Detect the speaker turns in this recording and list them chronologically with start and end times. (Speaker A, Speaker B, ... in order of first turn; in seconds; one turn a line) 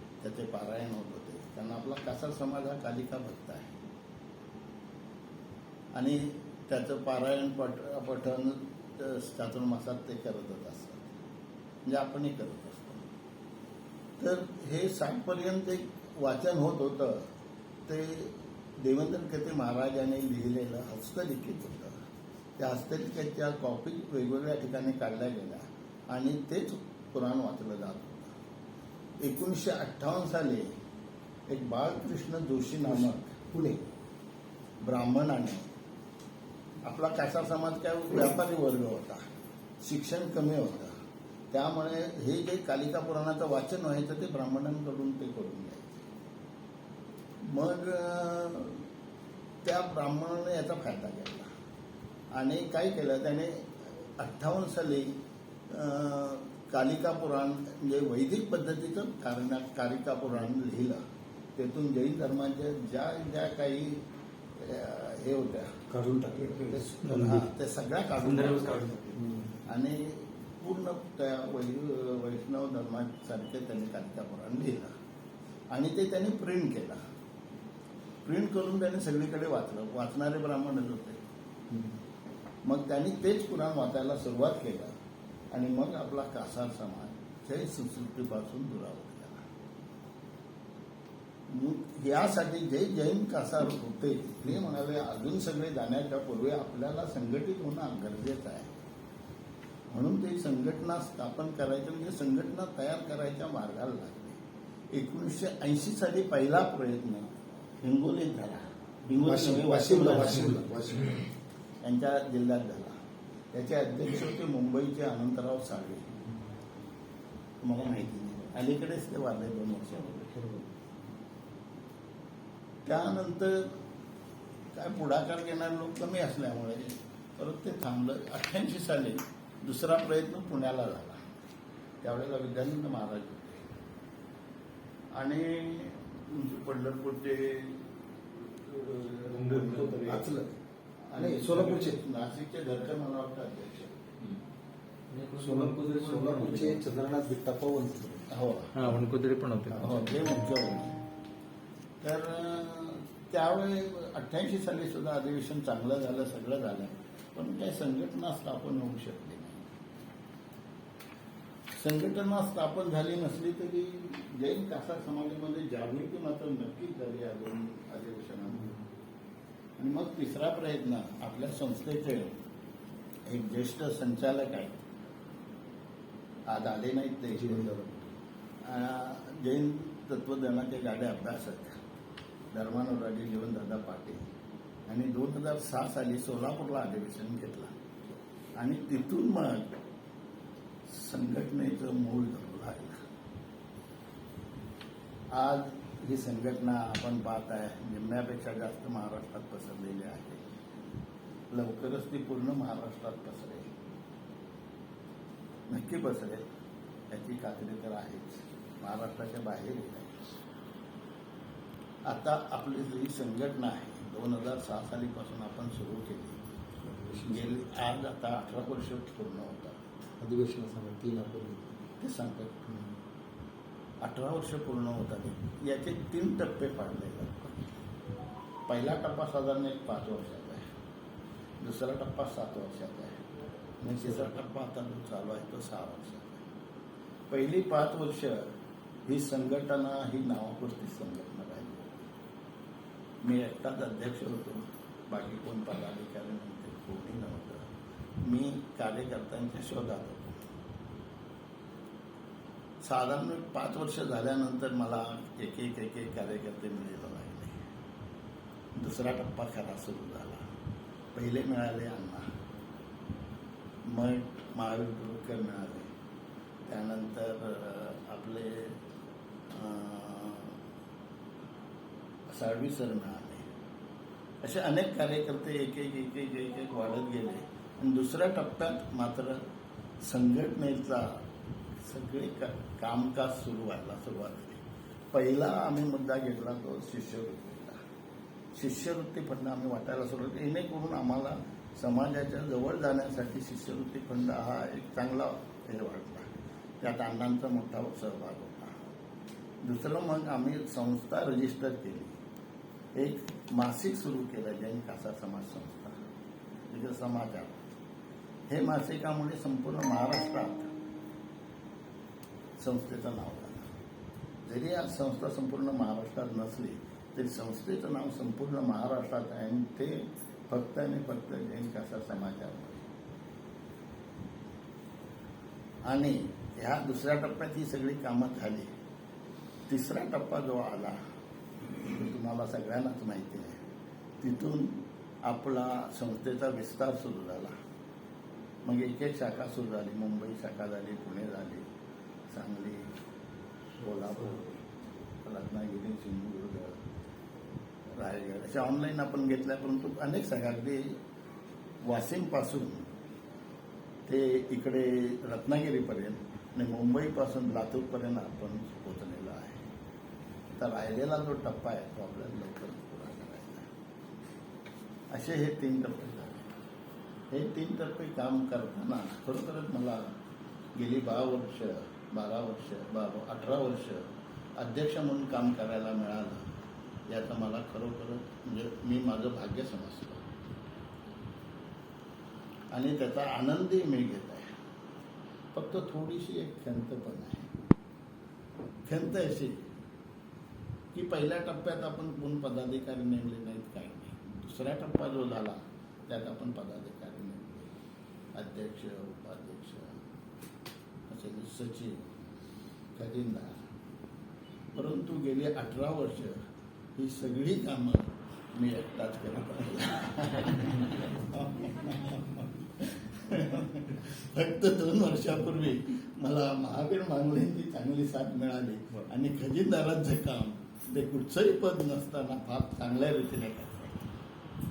Speaker A: 0.2-3.7
Speaker A: 5.9-11.1
Speaker A: 11.8-13.0
Speaker A: 14.2-17.3
Speaker A: 17.9-21.9
Speaker A: 22.6-28.3
Speaker A: 29.2-30.7
Speaker A: 31.5-33.4
Speaker B: 32.9-33.8
Speaker A: 34.8-35.7
Speaker A: 36.8-39.2
Speaker A: 39.8-40.9
Speaker A: 41.5-46.0
Speaker A: 47.4-48.9
Speaker A: 49.6-51.5
Speaker A: 52.3-55.1
Speaker A: 55.7-61.0
Speaker A: 61.6-64.0
Speaker A: 64.6-65.8
Speaker B: 65.9-67.4
Speaker A: 66.6-74.9
Speaker C: 67.0-67.3
Speaker C: 68.3-68.8
Speaker B: 69.2-69.5
Speaker A: 75.7-77.0
Speaker A: 78.2-81.2
Speaker A: 82.6-84.9
Speaker A: 85.5-89.4
Speaker A: 91.5-98.8
Speaker A: 99.9-104.4
Speaker A: 104.9-110.8
Speaker B: 109.2-111.3
Speaker A: 111.8-113.0
Speaker A: 113.5-116.1
Speaker A: 117.6-120.3
Speaker B: 120.3-120.7
Speaker A: 122.8-123.8
Speaker A: 124.7-131.2
Speaker A: 132.0-133.6
Speaker A: 135.2-140.4
Speaker B: 139.3-140.5
Speaker A: 141.1-144.1
Speaker B: 141.2-142.0
Speaker C: 145.1-146.8
Speaker B: 145.4-148.3
Speaker A: 148.3-149.0
Speaker C: 148.8-150.2
Speaker A: 149.7-150.9
Speaker A: 152.0-159.7
Speaker A: 161.7-168.8
Speaker A: 169.8-172.3
Speaker A: 173.3-174.8
Speaker A: 176.5-177.7
Speaker B: 177.3-178.1
Speaker A: 178.6-181.7
Speaker A: 182.5-184.2
Speaker A: 184.9-187.8
Speaker A: 188.6-189.8
Speaker A: 190.9-193.0
Speaker A: 195.3-200.4
Speaker A: 201.5-203.7
Speaker A: 205.7-206.4
Speaker A: 207.1-210.3
Speaker A: 212.1-216.4
Speaker B: 216.8-217.8
Speaker A: 217.2-219.9
Speaker B: 220.2-221.9
Speaker A: 222.0-222.9
Speaker A: 224.0-227.7
Speaker A: 228.7-230.6
Speaker A: 231.6-233.2
Speaker A: 233.8-236.4
Speaker A: 237.3-238.4
Speaker A: 239.1-241.9
Speaker A: 243.2-247.7
Speaker A: 248.2-250.4
Speaker A: 252.8-257.6
Speaker A: 258.7-260.4
Speaker A: 261.1-262.2
Speaker A: 263.9-265.9
Speaker A: 266.7-268.8
Speaker A: 269.5-270.6
Speaker A: 272.3-273.4
Speaker A: 274.4-279.4
Speaker A: 280.0-281.2
Speaker A: 281.8-287.8
Speaker A: 288.5-298.7
Speaker A: 299.6-302.2
Speaker A: 302.9-306.0
Speaker A: 306.7-307.6
Speaker A: 308.5-310.7
Speaker A: 312.6-313.7
Speaker A: 314.4-322.9
Speaker A: 325.9-328.7
Speaker A: 329.7-331.0
Speaker A: 331.9-333.6
Speaker A: 334.2-337.5
Speaker A: 338.6-341.6
Speaker A: 342.3-342.9
Speaker A: 343.8-344.6
Speaker A: 345.2-346.8
Speaker A: 347.9-351.0
Speaker A: 351.8-352.9
Speaker A: 354.1-359.7
Speaker A: 360.6-363.7
Speaker A: 365.1-366.5
Speaker A: 367.3-370.0
Speaker A: 370.7-376.4
Speaker A: 377.1-380.2
Speaker A: 382.7-384.5
Speaker A: 385.5-387.5
Speaker A: 388.9-389.7
Speaker A: 390.9-395.6
Speaker A: 396.1-397.7
Speaker A: 398.4-400.0
Speaker A: 401.1-402.1
Speaker A: 403.0-403.6
Speaker A: 404.7-406.4
Speaker A: 407.0-424.1